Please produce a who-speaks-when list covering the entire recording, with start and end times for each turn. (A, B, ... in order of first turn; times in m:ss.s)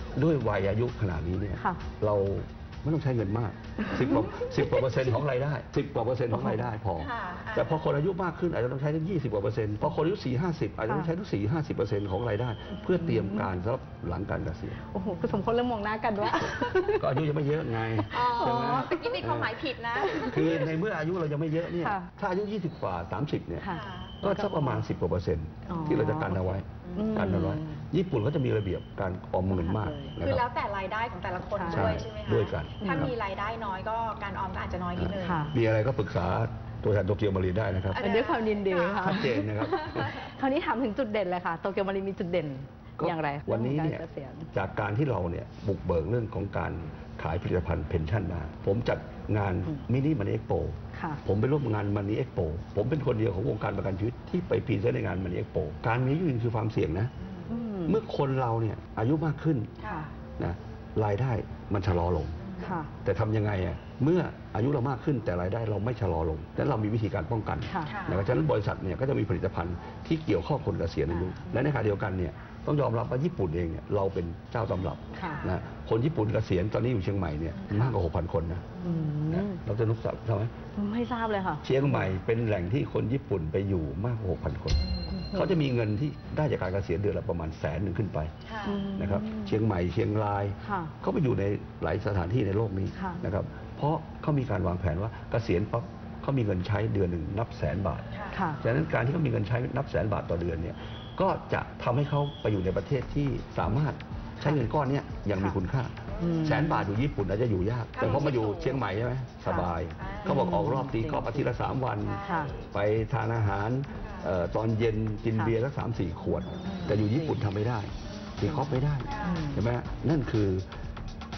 0:00.1-0:14.8 A
0:03.9-0:04.5 B
0:06.4-0:06.6 B
0:07.0-0:07.8 C
0:12.7-0:13.5 B
0:14.9-0:17.0 B
0:16.6-0:19.6 A
0:18.1-0:20.6 C
0:18.2-0:19.2 B
0:20.0-0:20.6 B
0:20.2-0:23.7 A
0:21.8-0:22.1 B
0:23.6-0:24.8 B
0:23.7-0:24.2 C
0:24.2-0:30.5 A
0:25.7-0:26.1 C
0:25.7-0:27.8 B
0:26.8-0:27.3 C
0:29.5-0:30.2 B
0:30.2-0:35.5 C
0:31.6-0:32.0 B
0:31.7-0:33.1 A
0:32.8-0:33.1 B
0:35.0-0:38.1 A
0:35.2-0:35.5 B
0:37.9-0:44.5 B
0:38.0-0:39.3 C
0:39.0-0:40.1 A
0:43.0-0:57.1 A
0:50.9-0:51.2 B
0:57.2-0:57.5 C
0:57.5-0:58.0 B
0:57.9-0:59.8 A
0:59.8-1:00.1 C
1:00.4-1:02.4 A
1:02.4-1:02.8 C
1:02.6-1:02.9 B
1:03.0-1:18.7 A
1:07.7-1:08.0 B
1:07.9-1:08.3 C
1:11.1-1:11.5 B
1:15.2-1:15.5 B
1:15.2-1:15.5 C
1:18.7-1:19.1 C
1:18.8-1:19.6 B
1:19.3-1:20.5 A
1:20.8-1:22.1 B
1:21.6-1:28.3 A
1:24.8-1:25.1 C
1:25.1-1:25.6 B
1:28.5-1:28.8 C
1:28.7-1:29.6 B
1:29.0-1:38.1 A
1:30.6-1:30.9 B
1:33.0-1:33.2 B
1:38.1-1:38.4 C
1:38.3-1:38.6 B
1:38.6-2:00.7 A
1:46.1-1:46.5 C
1:46.2-1:46.9 B
1:48.0-1:48.8 C
1:48.0-1:48.4 B
1:50.0-1:50.5 C
1:50.2-1:51.5 B
1:52.0-1:52.7 C
1:52.2-1:52.5 B
1:54.0-1:54.3 C
1:56.6-1:57.4 B
1:58.1-1:58.4 C
1:58.5-1:59.6 B
1:59.1-1:59.5 C